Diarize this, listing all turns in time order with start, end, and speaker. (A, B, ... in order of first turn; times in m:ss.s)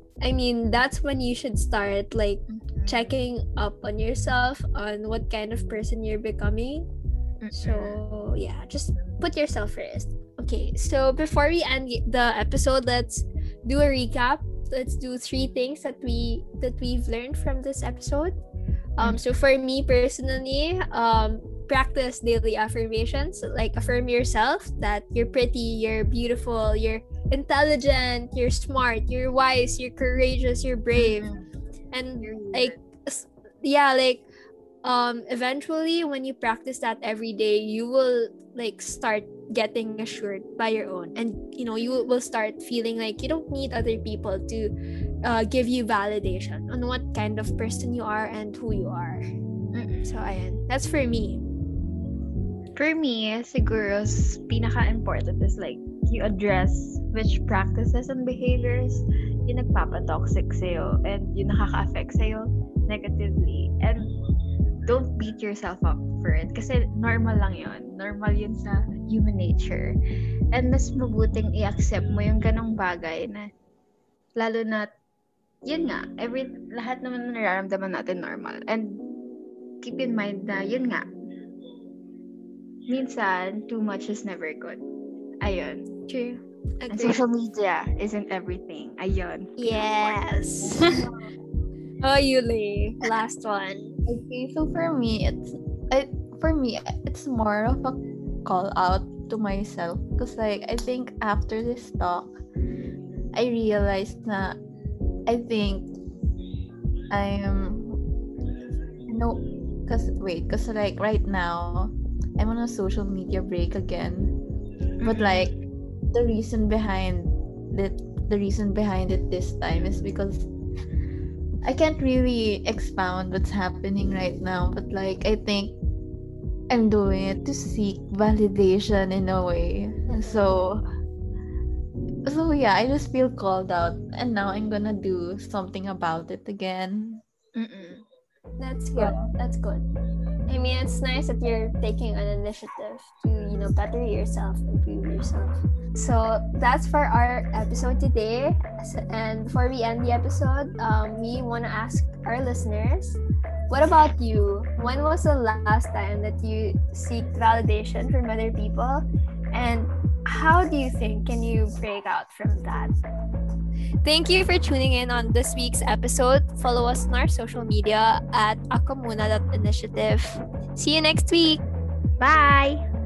0:00.2-0:06.9 A
0:02.5-0:03.1 B
0:07.4-0:08.0 B
0:07.5-0:18.4 A
0:19.0-0:31.3 A
0:31.0-0:31.4 B
0:31.9-0:34.2 A
0:32.2-0:32.8 B
0:34.8-0:44.7 A
0:45.2-0:49.2 A
0:49.7-0:50.1 B
0:50.0-0:51.4 A
0:52.8-1:04.1 B
1:04.8-1:10.0 B
1:10.5-1:13.5 B
1:14.4-1:14.9 B
1:15.6-1:19.0 B
1:19.8-1:21.1 B
1:22.9-1:24.8 B
1:25.4-1:25.9 B
1:26.1-1:27.2 A
1:26.9-1:30.9 B
1:29.6-1:31.0 A
1:32.0-1:34.0 A
1:34.0-1:42.4 C
1:43.3-1:44.6 C
1:45.3-1:45.9 C
1:47.1-1:48.0 C
1:49.1-1:54.3 C
1:55.0-1:55.6 B
1:55.0-1:55.5 C
1:56.1-2:00.5 C
2:01.6-2:05.8 C
2:06.7-2:10.8 C
2:12.2-2:17.2 C
2:17.6-2:18.0 B
2:18.6-2:19.8 A
2:19.0-2:19.3 C
2:20.5-2:42.9 A
2:44.0-2:51.6 A
2:52.2-2:52.8 B